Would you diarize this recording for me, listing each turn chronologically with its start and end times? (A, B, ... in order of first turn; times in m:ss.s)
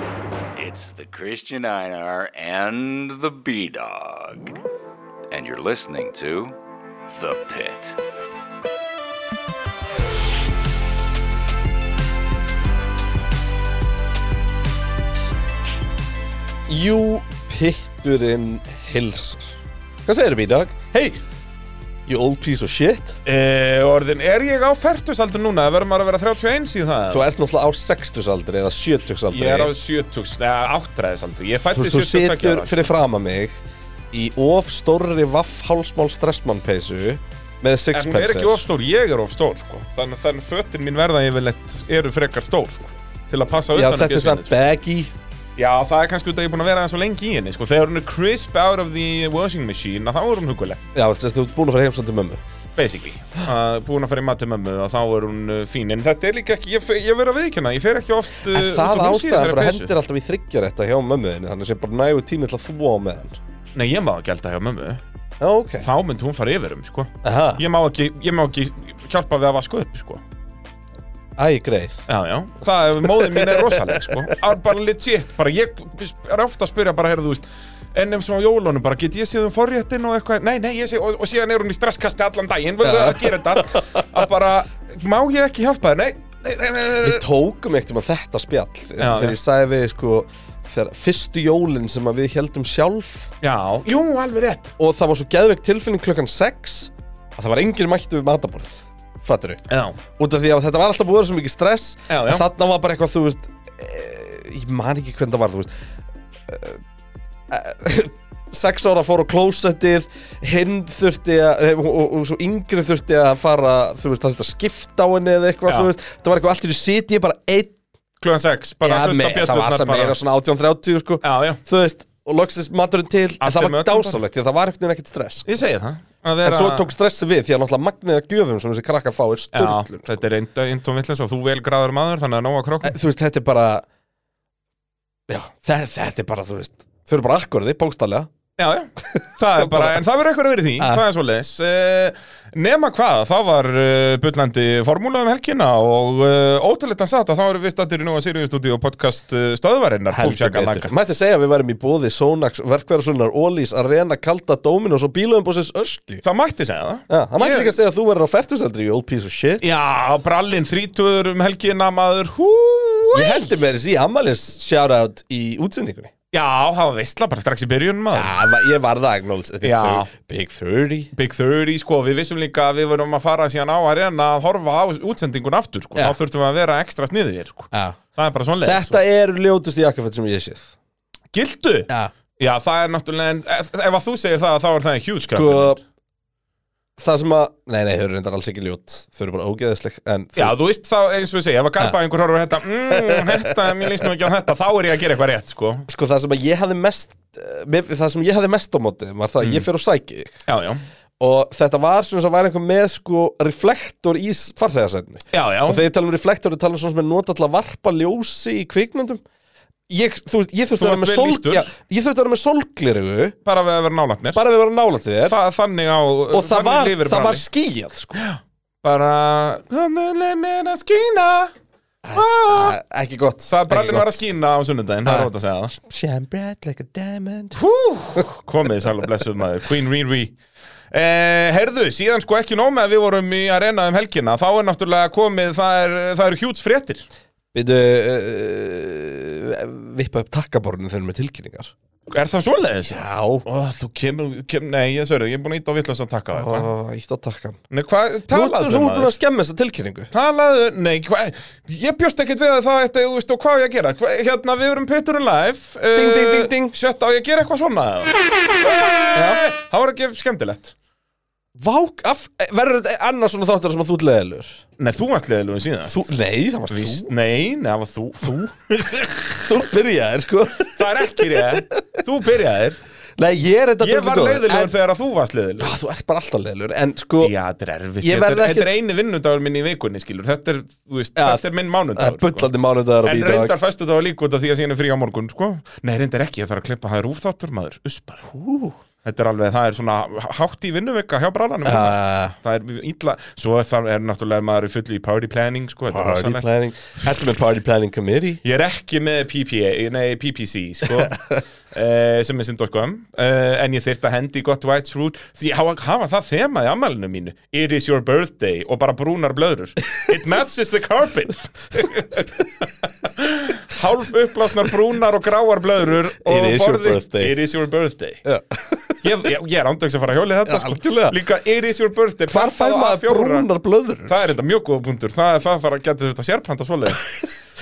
0:00.6-0:04.5 A
0:05.3-0:06.5 A
0:07.1-0:08.0 A
0:16.7-0:21.2 B
0:22.1-0:23.2 B
0:23.2-0:27.3 C
0:27.1-0:29.7 B
0:29.3-0:32.9 C
0:31.7-0:33.6 B
0:34.1-0:38.6 B
0:37.9-0:44.6 C
0:43.7-0:45.1 B
0:45.6-0:50.8 C
0:50.9-0:52.4 B
0:52.8-0:59.9 C
0:58.5-1:03.4 B
1:03.7-1:05.0 C
1:05.4-1:05.9 B
1:05.8-1:10.2 C
1:07.2-1:07.6 B
1:11.4-1:12.0 B
1:12.1-1:27.2 C
1:13.2-1:14.2 B
1:22.8-1:24.1 B
1:27.0-1:33.3 B
1:29.0-1:29.4 C
1:33.4-1:34.7 C
1:34.8-1:45.7 B
1:39.7-1:40.0 C
1:42.1-1:42.4 C
1:46.5-1:46.8 B
1:47.5-1:57.7 B
1:58.2-2:00.2 C
1:58.8-2:05.5 B
2:01.2-2:01.6 C
2:03.4-2:04.2 C
2:05.4-2:06.9 C
2:06.4-2:10.2 B
2:09.5-2:13.0 C
2:12.8-2:13.8 B
2:15.3-2:18.3 B
2:18.6-2:30.9 C
2:19.0-2:20.0 B
2:20.8-2:21.0 B
2:30.1-2:36.2 B
2:36.2-2:37.7 C
2:37.1-2:39.6 B
2:39.6-2:43.5 C
2:43.1-2:46.1 B
2:46.3-2:48.3 C
2:48.1-2:51.1 B
2:49.6-2:50.1 C
2:51.1-2:59.0 C
2:57.7-2:58.0 B
2:58.6-3:00.7 B
3:01.3-3:05.8 C
3:05.3-3:05.8 B
3:07.0-3:10.5 B
3:10.4-3:15.9 C
3:12.9-3:13.9 B
3:15.9-3:20.4 B
3:19.4-3:19.6 C
3:20.5-3:20.8 C
3:21.2-3:29.2 B
3:25.3-3:25.8 C
3:29.9-3:33.4 B
3:30.8-3:31.7 C
3:33.4-3:34.4 C
3:34.3-3:35.4 B
3:35.3-3:37.4 C
3:36.3-3:38.2 B
3:38.1-3:41.5 C
3:42.0-3:44.2 B
3:42.1-3:42.8 C
3:43.4-3:45.7 C
3:45.0-3:47.6 B
3:47.6-3:50.4 C
3:50.9-3:57.0 C
3:57.5-4:01.7 B
4:02.1-4:06.7 C
4:02.9-4:03.4 B
4:06.3-4:07.6 B
4:07.7-4:09.1 C
4:08.3-4:10.1 B
4:10.1-4:20.7 C
4:15.9-4:16.8 B
4:21.6-4:24.6 B
4:24.8-4:26.1 C
4:25.9-4:27.1 B
4:26.7-4:28.4 C
4:28.2-4:32.0 B
4:30.7-4:32.8 C
4:33.2-4:34.7 B
4:33.8-4:35.7 C
4:35.6-4:37.3 B
4:37.2-4:42.5 C
4:38.0-4:38.7 B
4:41.2-4:43.6 B
4:43.0-4:48.2 C
4:48.3-4:48.8 B
4:49.0-4:56.4 C
4:51.6-4:52.3 B
4:55.9-4:58.4 B
4:58.4-5:01.2 C
5:01.1-5:01.3 B
5:01.7-5:18.2 C
5:16.2-5:17.4 B
5:18.2-5:19.0 B
5:19.0-5:23.5 C
5:20.4-5:21.2 B
5:22.3-5:24.2 B
5:24.1-5:27.0 C